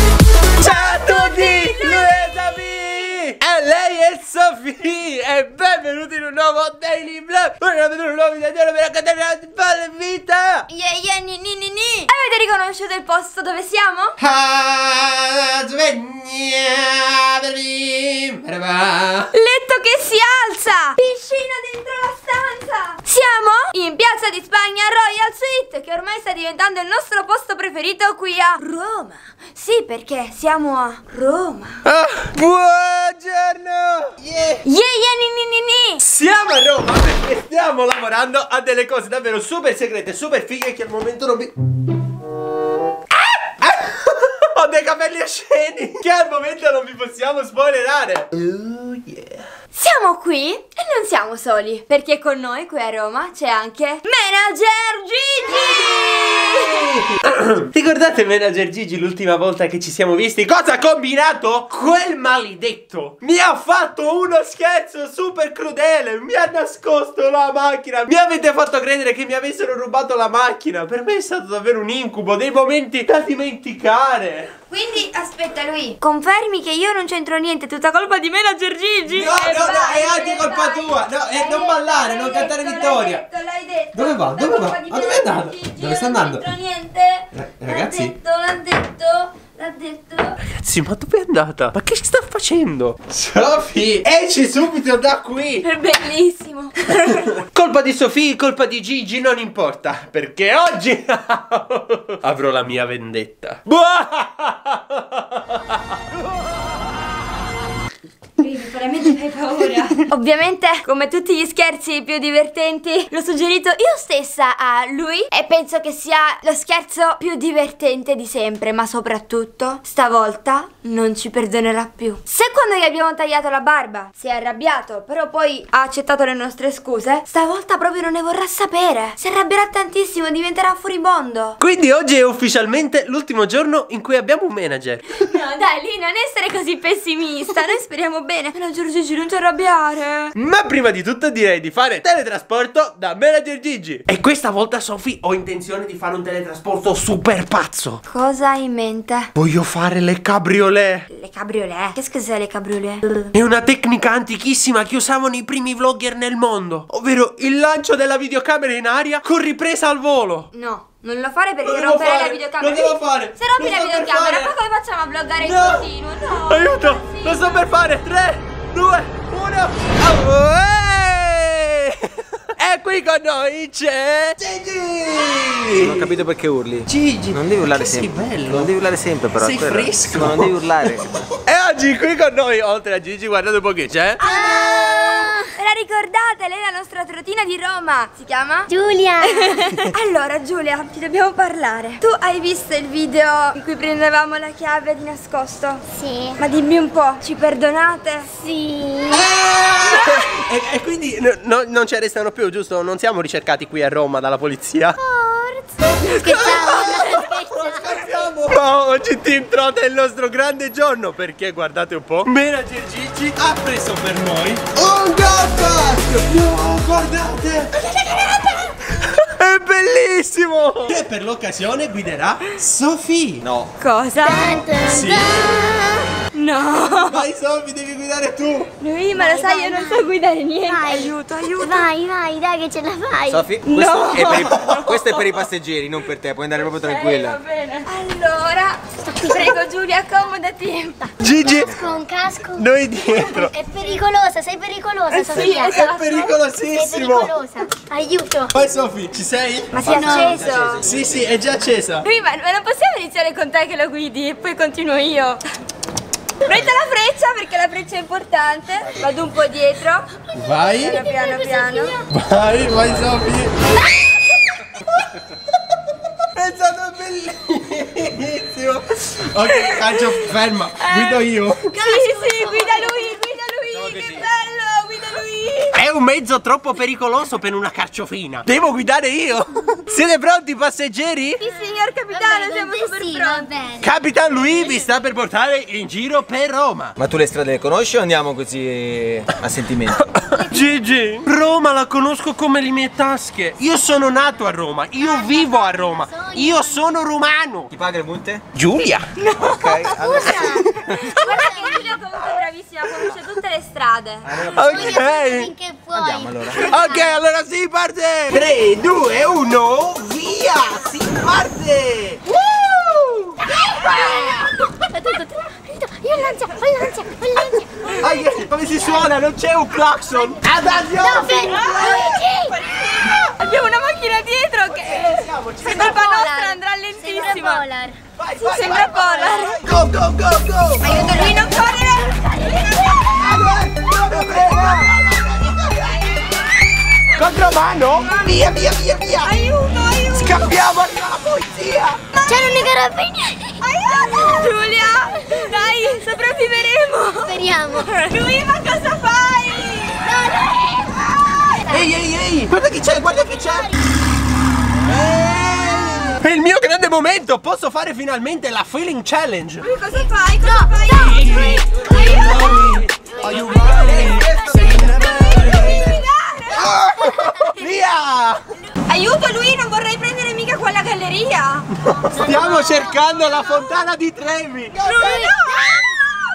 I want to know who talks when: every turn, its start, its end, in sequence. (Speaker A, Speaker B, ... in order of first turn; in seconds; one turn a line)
Speaker A: 0.6-2.6
Speaker B: 0.6-10.7
Speaker A: 10.7-14.2
Speaker B: 14.2-19.3
Speaker A: 19.3-31.8
Speaker B: 31.9-34.6
Speaker A: 34.6-36.0
Speaker B: 36.0-41.5
Speaker B: 43.4-49.4
Speaker A: 49.7-57.0
Speaker B: 55.5-74.5
Speaker A: 74.7-90.4
Speaker B: 79.1-83.2
Speaker B: 83.9-86.4
Speaker B: 87.3-88.1
Speaker B: 90.5-95.7
Speaker A: 95.6-97.4
Speaker B: 97.4-105.6
Speaker A: 108.4-131.6
Speaker B: 131.6-135.1
Speaker A: 135.2-140.3
Speaker B: 140.4-148.0
Speaker A: 148.1-149.3
Speaker B: 149.4-151.1
Speaker A: 151.1-153.0
Speaker B: 153.3-160.5
Speaker A: 160.5-167.7
Speaker B: 161.6-164.5
Speaker B: 165.4-176.1
Speaker C: 175.8-181.2
Speaker B: 176.9-178.7
Speaker B: 179.3-180.9
Speaker B: 181.4-184.7
Speaker D: 184.2-185.5
Speaker A: 184.2-188.7
Speaker D: 188.7-189.8
Speaker A: 189.3-195.8
Speaker D: 195.9-196.4
Speaker A: 196.4-198.3
Speaker D: 198.3-199.3
Speaker B: 199.1-205.0
Speaker A: 199.8-200.2
Speaker D: 205.0-208.3
Speaker B: 205.9-223.4
Speaker C: 223.4-223.7
Speaker A: 223.8-224.7
Speaker D: 224.2-226.2
Speaker B: 224.8-225.7
Speaker A: 226.3-227.3
Speaker B: 226.7-228.7
Speaker A: 228.8-231.9
Speaker D: 229.1-230.1
Speaker D: 230.7-233.4
Speaker C: 233.3-237.4
Speaker A: 233.6-235.2
Speaker B: 234.3-234.8
Speaker A: 236.6-241.1
Speaker D: 239.0-239.7
Speaker B: 241.2-241.7
Speaker C: 241.4-242.0
Speaker D: 241.4-248.6
Speaker B: 242.5-243.5
Speaker A: 245.1-246.3
Speaker B: 245.3-247.3
Speaker B: 248.6-249.8
Speaker A: 249.7-250.8
Speaker C: 249.8-251.3
Speaker D: 249.9-250.4
Speaker B: 250.8-252.1
Speaker A: 252.0-255.4
Speaker A: 256.4-260.0
Speaker B: 260.4-261.0
Speaker A: 260.7-262.0
Speaker D: 260.9-262.0
Speaker B: 262.1-263.8
Speaker B: 266.3-271.8
Speaker A: 269.4-270.2
Speaker A: 270.8-271.2
Speaker D: 271.7-273.3
Speaker A: 271.8-275.8
Speaker C: 273.7-274.2
Speaker B: 275.8-281.4
Speaker A: 281.4-283.5
Speaker D: 281.4-284.9
Speaker B: 283.8-287.0
Speaker C: 287.0-290.0
Speaker B: 290.1-297.7
Speaker D: 290.4-290.6
Speaker D: 295.0-296.9
Speaker C: 297.7-298.4
Speaker B: 298.6-299.1
Speaker A: 299.2-304.3
Speaker C: 299.4-301.1
Speaker D: 299.9-300.7
Speaker B: 300.2-301.6
Speaker D: 301.2-301.7
Speaker C: 304.2-305.1
Speaker B: 304.5-305.5
Speaker D: 304.6-307.2
Speaker C: 305.9-306.6
Speaker B: 306.5-314.6
Speaker D: 313.5-318.9
Speaker B: 317.5-322.2
Speaker D: 320.9-322.6
Speaker A: 321.4-327.6
Speaker B: 324.6-326.2
Speaker D: 325.6-328.0
Speaker B: 328.2-331.4
Speaker A: 328.4-329.6
Speaker A: 330.8-333.1
Speaker D: 331.0-331.4
Speaker D: 332.1-333.3
Speaker B: 333.1-336.1
Speaker A: 334.1-334.9
Speaker B: 337.2-339.4
Speaker A: 337.9-338.6
Speaker A: 339.2-340.5
Speaker B: 340.1-342.1
Speaker A: 342.1-342.7
Speaker D: 342.3-344.5
Speaker A: 343.6-350.2
Speaker D: 347.2-347.9
Speaker D: 350.0-351.9
Speaker B: 351.7-353.7
Speaker D: 352.7-353.8
Speaker B: 354.9-359.7
Speaker A: 359.6-362.5
Speaker D: 360.0-365.8
Speaker B: 361.1-368.4
Speaker A: 364.1-366.8
Speaker D: 367.0-367.5
Speaker A: 368.9-371.7
Speaker B: 371.8-374.8
Speaker D: 372.0-373.8
Speaker D: 374.8-376.0
Speaker A: 374.8-376.2